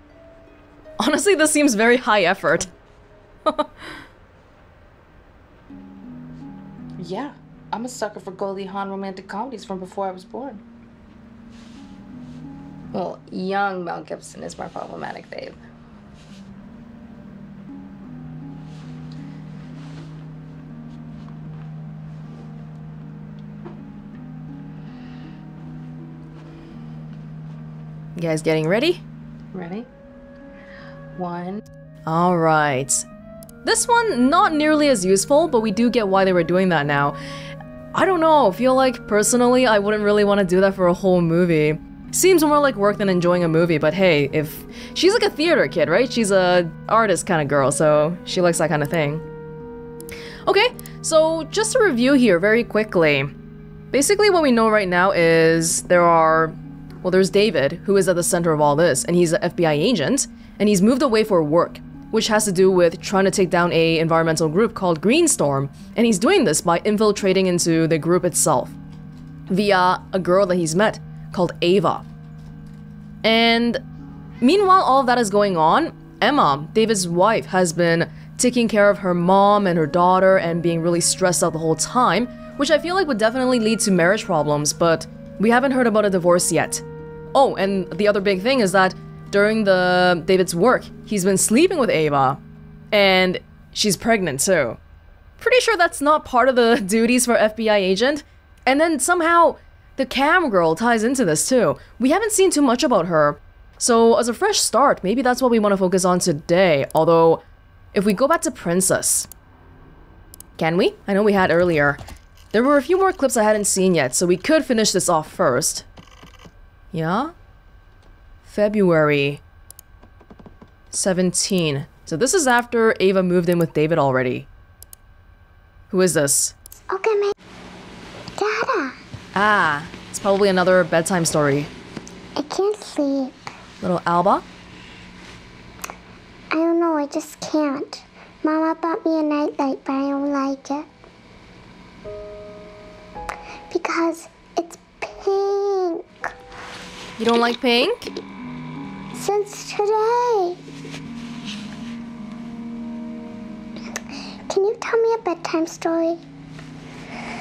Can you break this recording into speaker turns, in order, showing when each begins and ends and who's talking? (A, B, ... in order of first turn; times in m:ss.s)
0:01.0-0:02.7 A
0:03.5-0:04.0 A
0:07.0-0:10.6 B
0:12.9-0:15.6 B
0:28.2-0:29.0 A
0:29.5-0:29.9 B
0:31.2-0:31.6 B
0:32.1-0:33.1 A
0:33.6-0:37.2 A
0:37.9-0:49.2 A
0:50.5-0:53.3 A
0:53.9-1:08.8 A
1:09.5-1:12.1 A
1:13.2-1:13.8 A
1:14.4-1:32.4 A
1:32.9-1:34.8 A
1:35.4-1:47.4 A
1:47.9-1:49.3 A
1:50.6-1:52.0 A
1:52.5-1:55.9 A
1:56.9-1:57.3 A
1:58.4-1:59.4 A
2:00.9-2:04.5 A
2:05.9-2:06.6 A
2:06.9-2:07.3 C
2:08.4-2:09.0 C
2:09.4-2:11.7 A
2:12.4-2:13.3 C
2:13.8-2:14.4 A
2:16.5-2:20.9 C
2:23.7-2:26.1 C
2:27.2-2:28.1 A
2:29.1-2:30.6 C
2:34.5-2:36.2 C